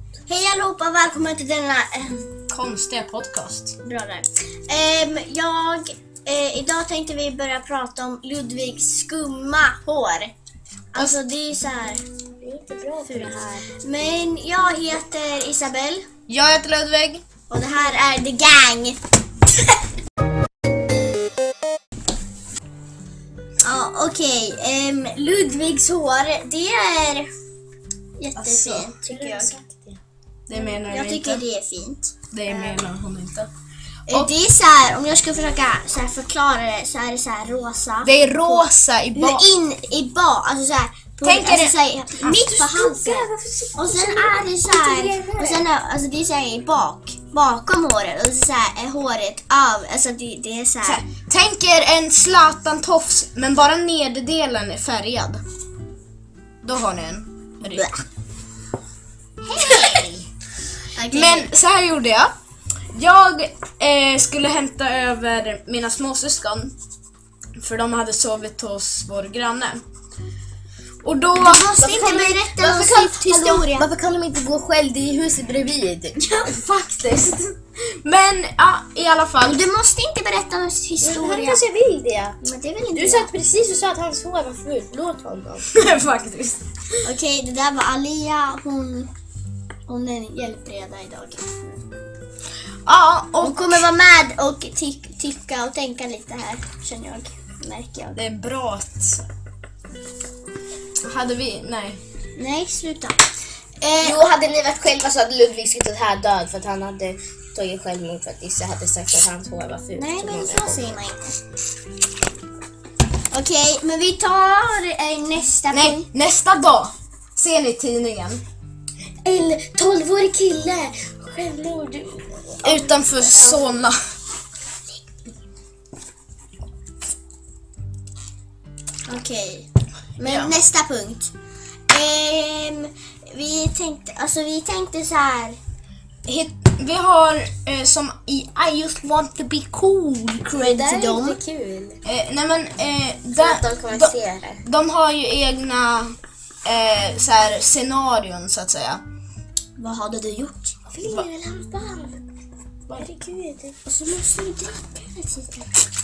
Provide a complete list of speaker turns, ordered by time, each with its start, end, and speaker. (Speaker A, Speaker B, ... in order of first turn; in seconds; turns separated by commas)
Speaker A: 0.3-2.3, Speaker B: 2.5-3.8, Speaker A: 3.8-10.3, Speaker A: 10.9-12.0, Speaker C: 12.4-13.7, Speaker A: 13.1-16.1, Speaker B: 16.3-17.2, Speaker A: 17.5-19.0, Speaker A: 23.6-27.3, Speaker A: 28.2-29.5, Speaker B: 28.4-28.9, Speaker C: 29.0-30.0, Speaker B: 30.5-31.4, Speaker A: 30.5-32.8, Speaker B: 32.3-33.5, Speaker A: 34.1-51.0, Speaker B: 38.0-39.5, Speaker B: 41.2-41.8, Speaker C: 42.2-45.6, Speaker B: 50.8-55.4, Speaker B: 56.6-57.9, Speaker A: 59.5-60.1, Speaker B: 59.6-60.1, Speaker A: 61.0-61.5, Speaker B: 61.1-62.3, Speaker B: 62.9-66.7, Speaker B: 67.6-69.8, Speaker B: 71.0-71.7, Speaker A: 71.4-73.9, Speaker C: 71.8-77.4, Speaker A: 76.2-76.5, Speaker B: 78.0-79.6, Speaker A: 79.4-81.6, Speaker C: 81.0-82.4, Speaker A: 82.4-83.3, Speaker C: 82.9-85.7, Speaker B: 85.7-86.6, Speaker A: 87.0-89.1, Speaker A: 89.9-91.8, Speaker B: 92.9-93.8, Speaker A: 93.4-98.2, Speaker B: 98.2-99.2, Speaker B: 101.1-102.0, Speaker A: 102.4-103.2, Speaker A: 103.8-104.2, Speaker C: 104.0-111.0, Speaker A: 109.9-111.4, Speaker A: 113.3-116.1, Speaker B: 115.7-118.4, Speaker C: 119.2-123.7, Speaker B: 122.6-124.0, Speaker A: 129.1-131.3, Speaker B: 130.2-130.5, Speaker A: 131.9-135.6, Speaker B: 136.3-140.8, Speaker A: 140.5-141.4, Speaker C: 140.6-142.0, Speaker B: 142.1-149.0, Speaker C: 143.4-144.6, Speaker A: 149.8-150.8, Speaker C: 150.9-152.2, Speaker C: 152.9-153.8, Speaker A: 153.8-155.7